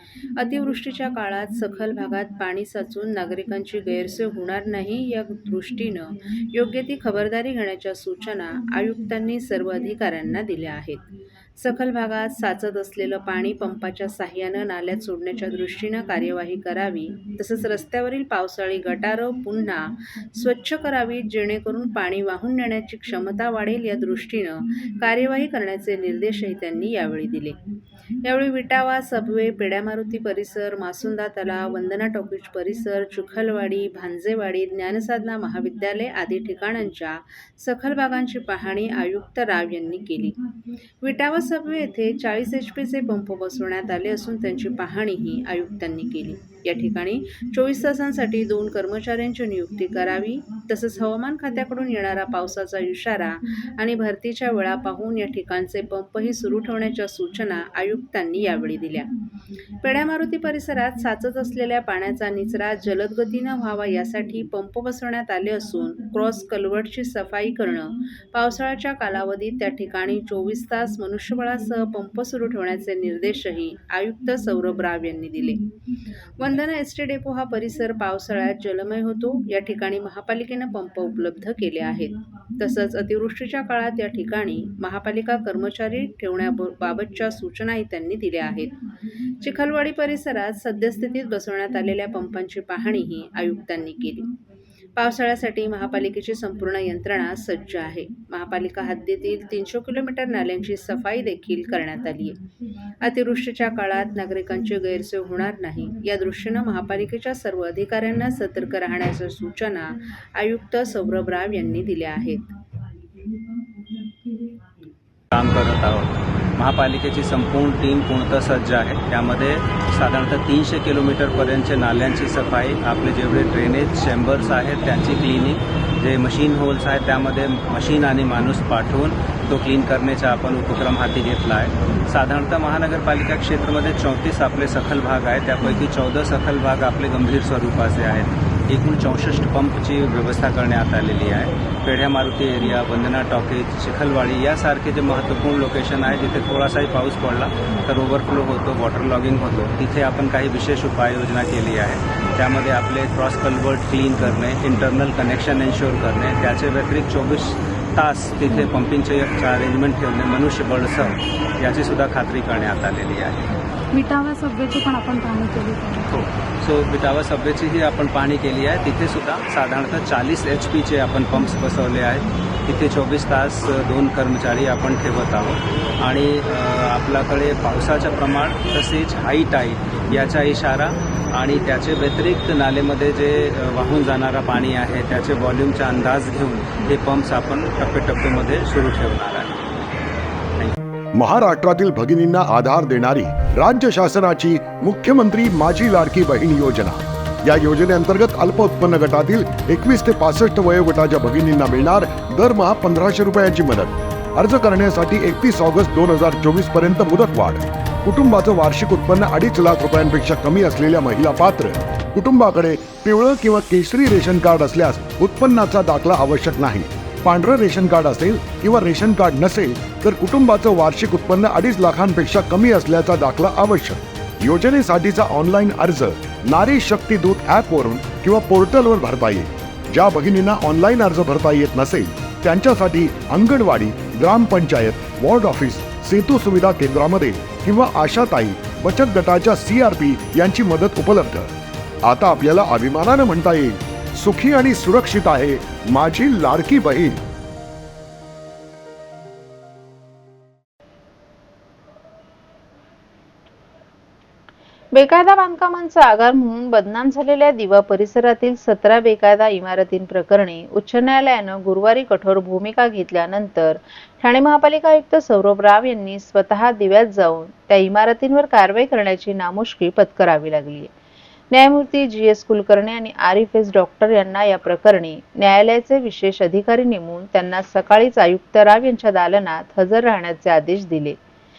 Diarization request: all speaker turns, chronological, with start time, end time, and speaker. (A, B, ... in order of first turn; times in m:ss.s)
0:00.4-0:11.0 A
0:00.6-0:00.9 B
0:03.0-0:03.3 B
0:04.3-0:05.9 B
0:06.6-0:11.0 B
0:11.6-0:15.8 B
0:11.6-0:27.6 A
0:16.4-0:19.6 B
0:20.4-0:21.5 B
0:22.1-0:22.4 B
0:23.4-0:24.2 B
0:25.0-0:27.5 B
0:28.2-0:28.5 B
0:28.3-0:37.1 A
0:29.2-0:29.5 B
0:31.1-0:32.4 B
0:33.1-0:37.8 B
0:37.7-0:40.3 A
0:38.5-0:39.9 B
0:41.0-0:45.2 B
0:41.0-0:59.1 A
0:46.5-0:57.4 B
0:58.1-0:58.6 B
0:59.8-1:02.3 B
0:59.8-1:15.6 A
1:06.6-1:08.4 B
1:10.9-1:11.2 B
1:16.4-1:28.7 A
1:16.4-1:16.8 B
1:19.8-1:20.6 B
1:23.2-1:23.6 B
1:26.5-1:28.4 B
1:29.4-1:34.3 A
1:30.5-1:31.0 B
1:35.0-1:35.5 B
1:35.0-1:42.4 A
1:43.0-1:49.9 A
1:50.4-1:52.5 A
1:55.3-2:43.5 C
2:43.9-2:46.1 D
2:46.1-3:09.6 C
3:11.2-4:01.5 E
4:02.0-4:07.2 E
4:14.9-4:30.9 B
4:31.5-4:41.2 B